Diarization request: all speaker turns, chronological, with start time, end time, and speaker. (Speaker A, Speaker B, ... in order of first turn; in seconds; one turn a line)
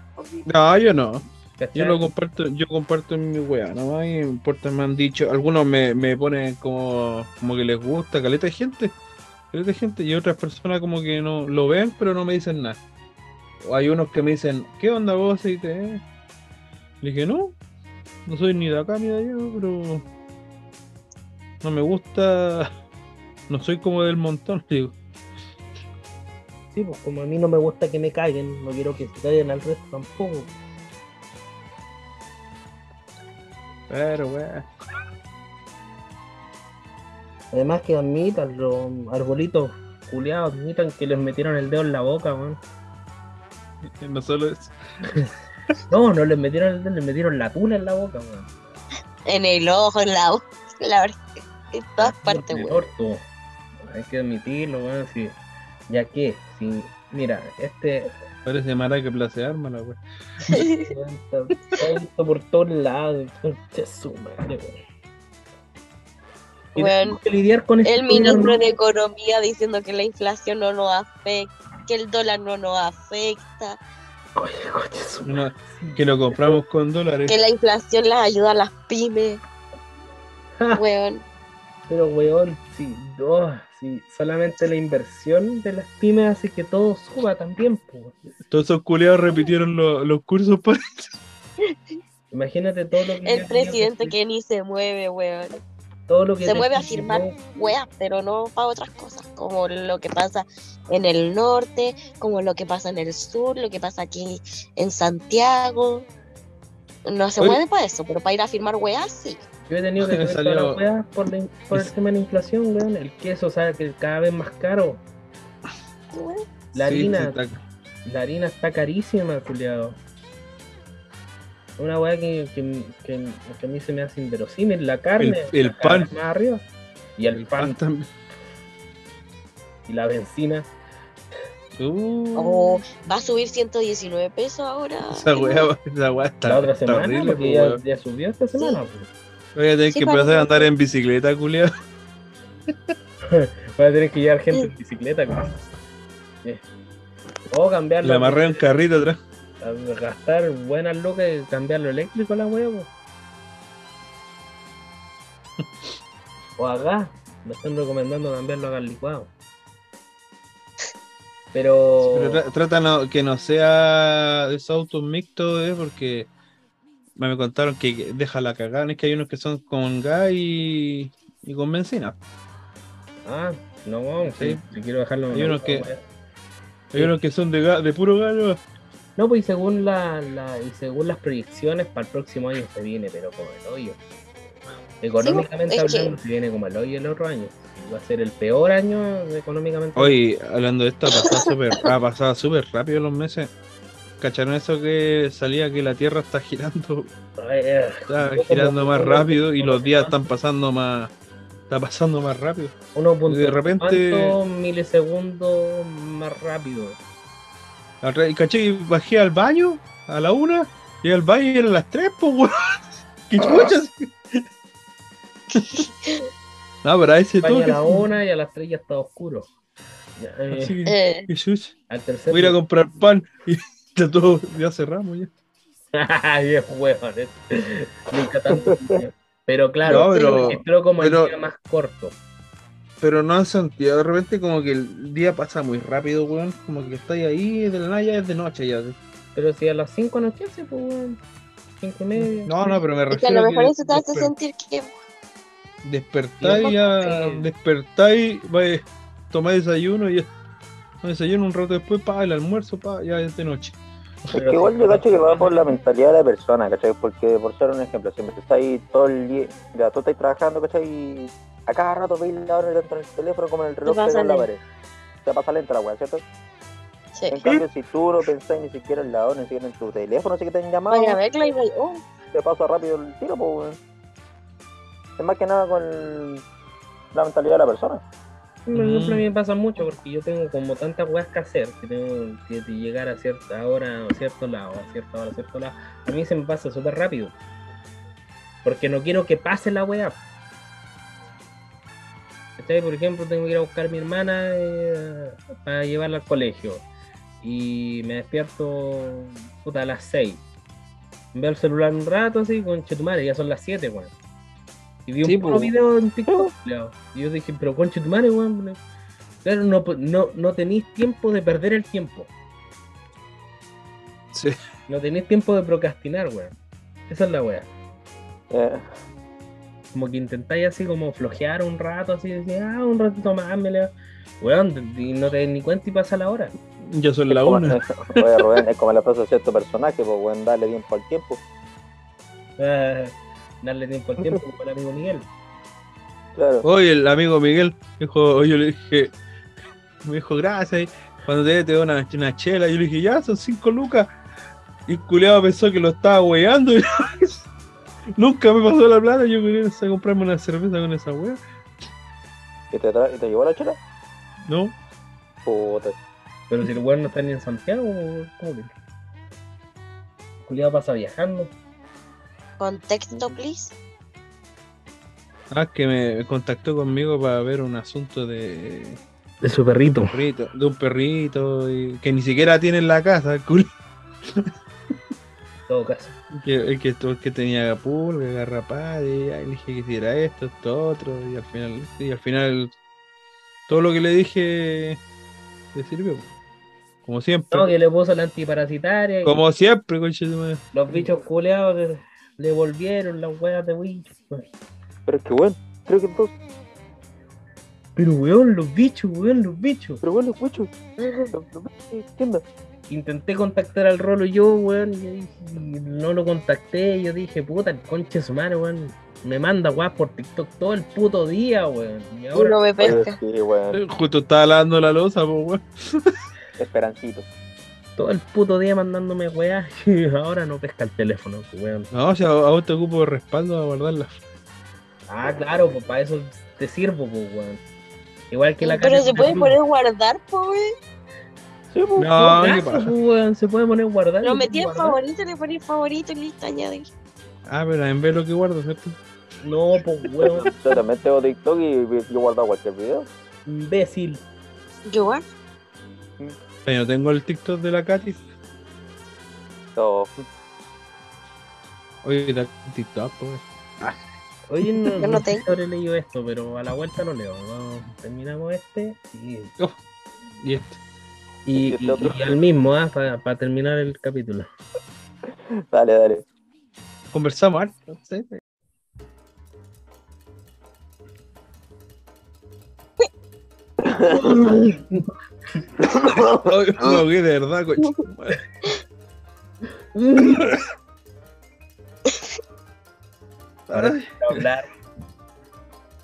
Speaker A: 0.4-8.9
Speaker B: 1.6-2.0
Speaker A: 9.5-12.8
Speaker A: 13.6-16.0
Speaker A: 17.0-17.5
Speaker A: 18.2-20.0
Speaker A: 21.6-22.7
Speaker A: 23.5-25.0
Speaker B: 26.7-30.5
Speaker A: 33.9-34.6
Speaker B: 37.5-42.6
Speaker A: 43.8-45.1
Speaker B: 45.9-48.5
Speaker C: 49.2-52.9
Speaker B: 52.0-53.2
Speaker B: 53.8-55.4
Speaker B: 55.9-58.1
Speaker A: 58.5-60.0
Speaker C: 60.5-60.9
Speaker B: 60.5-64.8
Speaker B: 66.7-68.6
Speaker C: 66.8-67.2
Speaker C: 67.8-73.8
Speaker B: 74.3-76.6
Speaker A: 75.2-77.4
Speaker C: 77.3-79.4
Speaker C: 80.7-81.2
Speaker B: 81.9-88.2
Speaker A: 88.5-91.2
Speaker C: 91.6-92.0
Speaker B: 92.3-94.2
Speaker C: 93.2-95.6
Speaker B: 96.1-97.3
Speaker C: 96.4-106.1
Speaker C: 107.0-109.4
Speaker B: 109.7-115.0
Speaker A: 110.0-110.8
Speaker C: 116.1-116.5
Speaker B: 116.7-117.4
Speaker A: 116.8-117.6
Speaker B: 118.0-120.0
Speaker B: 121.8-126.6
Speaker A: 125.2-126.1
Speaker B: 127.2-127.8
Speaker A: 127.3-128.1
Speaker B: 129.9-130.7
Speaker A: 131.8-132.8
Speaker C: 132.3-135.7
Speaker A: 135.1-137.8
Speaker B: 136.4-139.1
Speaker C: 138.6-138.8
Speaker A: 139.5-141.7
Speaker C: 139.9-140.7
Speaker B: 143.3-145.5
Speaker B: 147.5-148.6
Speaker A: 148.0-149.2
Speaker B: 149.6-152.9
Speaker B: 156.6-159.3
Speaker B: 161.5-162.4
Speaker A: 162.0-166.3
Speaker A: 167.2-172.2
Speaker B: 173.2-176.0
Speaker A: 174.2-174.6
Speaker A: 175.3-175.9
Speaker A: 176.9-178.6
Speaker B: 179.2-184.0
Speaker B: 185.0-190.2
Speaker C: 185.2-186.1
Speaker A: 189.9-193.5
Speaker C: 191.1-191.8
Speaker A: 194.2-197.1
Speaker B: 197.4-200.2
Speaker A: 198.1-201.1
Speaker A: 201.7-202.7
Speaker B: 202.9-207.0
Speaker A: 203.3-204.4
Speaker A: 208.0-214.4
Speaker A: 215.5-215.9
Speaker C: 215.8-216.2
Speaker A: 216.8-218.1
Speaker B: 217.4-219.5
Speaker B: 220.2-220.7
Speaker A: 220.5-221.7
Speaker C: 220.9-221.3
Speaker B: 221.9-222.6
Speaker A: 222.3-225.3
Speaker B: 225.9-232.2
Speaker D: 228.5-229.0
Speaker A: 229.8-231.3
Speaker C: 229.9-230.6
Speaker A: 233.0-239.0
Speaker B: 239.3-241.2
Speaker B: 241.8-242.8
Speaker A: 242.2-244.3
Speaker C: 243.1-244.9
Speaker A: 245.8-250.3
Speaker B: 246.4-247.4
Speaker C: 246.5-247.3
Speaker A: 251.0-253.8
Speaker B: 254.3-255.8
Speaker D: 254.3-264.6
Speaker C: 263.9-264.5
Speaker D: 265.2-266.2
Speaker C: 267.1-267.4
Speaker D: 267.3-271.2
Speaker C: 270.9-272.0
Speaker D: 272.3-273.8
Speaker D: 275.2-276.4
Speaker D: 277.1-278.0
Speaker B: 278.6-287.3
Speaker A: 278.7-279.2
Speaker B: 288.6-290.2
Speaker B: 292.6-296.9
Speaker B: 297.4-300.4
Speaker B: 301.3-304.1
Speaker B: 305.1-308.8
Speaker A: 305.2-305.7
Speaker D: 306.3-306.5
Speaker B: 309.4-312.3
Speaker B: 314.9-316.5
Speaker B: 317.1-317.7
Speaker D: 318.5-318.8
Speaker B: 319.9-326.5
Speaker A: 326.8-328.6
Speaker D: 327.3-331.4
Speaker B: 332.6-335.3
Speaker D: 336.4-336.6
Speaker A: 336.6-339.1
Speaker A: 340.0-344.1
Speaker A: 344.9-347.4
Speaker A: 348.1-351.4
Speaker D: 352.7-353.8
Speaker A: 354.5-354.8
Speaker D: 355.4-355.9
Speaker B: 356.5-358.7
Speaker B: 360.4-361.5
Speaker C: 362.6-363.8
Speaker A: 365.5-369.0
Speaker B: 369.4-370.1
Speaker A: 370.1-373.7
Speaker A: 374.2-374.5
Speaker B: 375.7-376.1
Speaker A: 376.3-382.7
Speaker A: 383.7-385.0
Speaker A: 385.7-386.3
Speaker A: 387.0-387.7
Speaker B: 387.5-389.4
Speaker A: 389.2-391.1
Speaker B: 390.7-394.5
Speaker D: 395.1-396.3
Speaker B: 398.0-400.0
Speaker D: 400.0-400.7
Speaker C: 401.0-401.3
Speaker D: 401.3-402.4
Speaker B: 402.9-413.0
Speaker C: 412.3-413.1
Speaker D: 412.8-413.8
Speaker A: 413.7-416.2
Speaker D: 416.6-417.3
Speaker B: 418.0-421.9
Speaker A: 421.9-424.2
Speaker B: 425.1-427.6
Speaker B: 428.3-429.6
Speaker C: 428.6-430.7
Speaker D: 431.7-432.3
Speaker A: 432.0-432.9
Speaker B: 432.2-435.0
Speaker C: 434.2-436.9
Speaker A: 437.5-438.9
Speaker B: 439.4-440.6
Speaker D: 440.4-443.1
Speaker B: 443.4-444.2
Speaker C: 444.9-445.2
Speaker A: 446.6-448.2
Speaker D: 449.8-450.1
Speaker A: 452.0-454.0
Speaker B: 454.5-459.5
Speaker C: 455.0-455.4
Speaker A: 460.4-460.8
Speaker B: 461.4-464.5
Speaker D: 461.6-462.4
Speaker D: 465.6-466.2
Speaker A: 467.1-468.4
Speaker D: 473.8-474.5
Speaker B: 474.1-475.1
Speaker D: 475.8-476.9
Speaker A: 476.4-478.4
Speaker B: 479.9-480.4
Speaker A: 480.3-480.6
Speaker A: 483.7-484.4
Speaker B: 483.7-484.7